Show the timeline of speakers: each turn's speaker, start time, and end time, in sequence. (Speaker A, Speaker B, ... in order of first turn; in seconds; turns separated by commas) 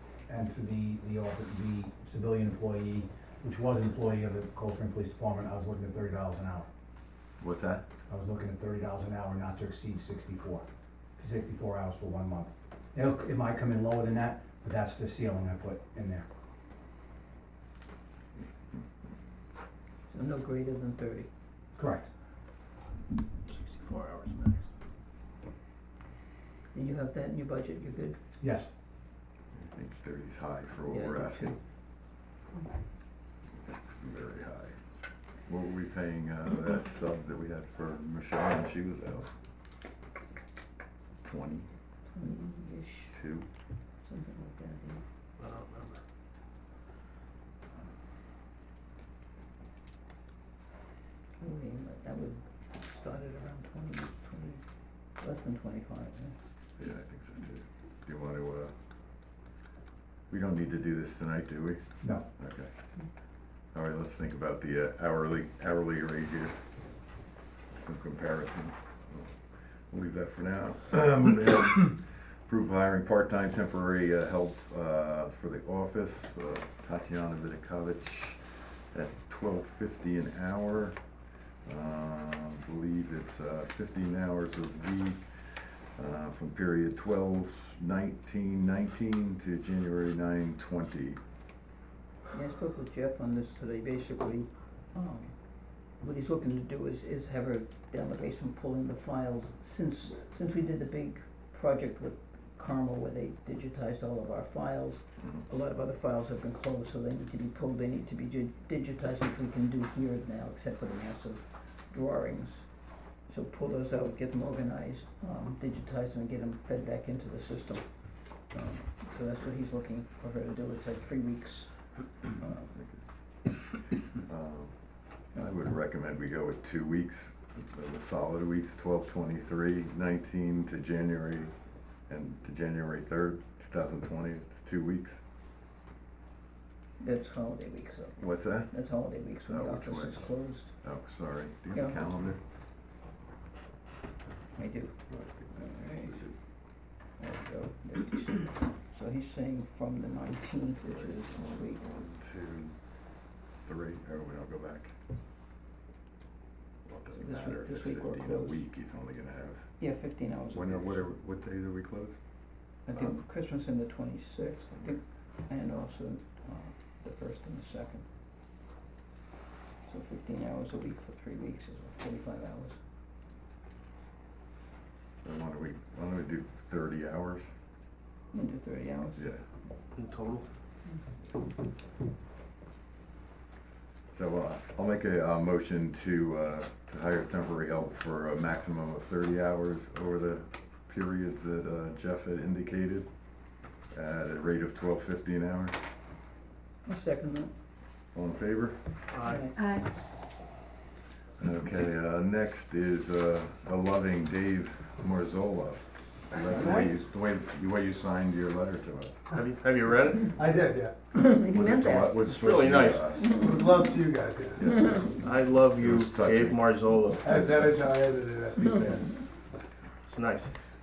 Speaker A: 0.3-6.7, Speaker B: 7.4-7.9, Speaker A: 8.1-10.7, Speaker A: 11.2-16.3, Speaker C: 20.1-21.3, Speaker A: 21.8-22.1, Speaker D: 23.5-24.7, Speaker C: 26.7-28.2, Speaker A: 28.4-28.7, Speaker B: 29.5-31.6, Speaker C: 30.9-31.6, Speaker B: 33.6-39.3, Speaker B: 41.2-41.7, Speaker C: 42.1-43.1, Speaker B: 43.1-43.5, Speaker C: 44.0-45.0, Speaker D: 45.4-46.0, Speaker C: 51.4-54.6, Speaker C: 55.2-56.3, Speaker B: 56.8-58.7, Speaker B: 60.3-61.8, Speaker B: 62.4-62.7, Speaker B: 63.7-66.6, Speaker B: 67.7-69.4, Speaker B: 69.9-81.0, Speaker B: 81.6-91.2, Speaker C: 92.3-95.3, Speaker C: 96.0-112.6, Speaker C: 113.3-117.8, Speaker C: 118.5-121.7, Speaker C: 122.3-122.7, Speaker B: 122.6-123.0, Speaker B: 124.2-124.7, Speaker B: 125.3-131.5, Speaker B: 132.1-135.2, Speaker C: 137.0-140.7, Speaker B: 138.2-138.7, Speaker B: 139.5-142.4, Speaker C: 144.6-144.9, Speaker B: 145.1-146.3, Speaker C: 145.6-146.2, Speaker C: 147.2-151.8, Speaker B: 150.9-152.7, Speaker B: 153.6-154.9, Speaker B: 156.8-159.7, Speaker C: 157.2-158.6, Speaker C: 159.8-161.1, Speaker B: 160.5-162.2, Speaker C: 162.9-168.0, Speaker C: 169.9-172.8, Speaker B: 175.2-177.4, Speaker C: 178.3-179.3, Speaker B: 179.2-179.4, Speaker D: 179.9-180.4, Speaker B: 184.1-193.1, Speaker B: 193.9-195.8, Speaker C: 196.8-197.5, Speaker B: 198.1-198.8, Speaker D: 199.1-199.5, Speaker C: 199.2-199.6, Speaker B: 201.4-209.2, Speaker E: 206.4-207.0, Speaker D: 209.3-210.3, Speaker E: 210.2-211.1, Speaker C: 211.1-212.0, Speaker B: 211.5-213.4, Speaker D: 212.0-213.2, Speaker E: 213.3-214.7, Speaker B: 214.6-215.1, Speaker D: 215.0-217.8, Speaker B: 215.8-216.6, Speaker E: 217.2-219.1, Speaker D: 218.6-219.1, Speaker D: 220.1-220.5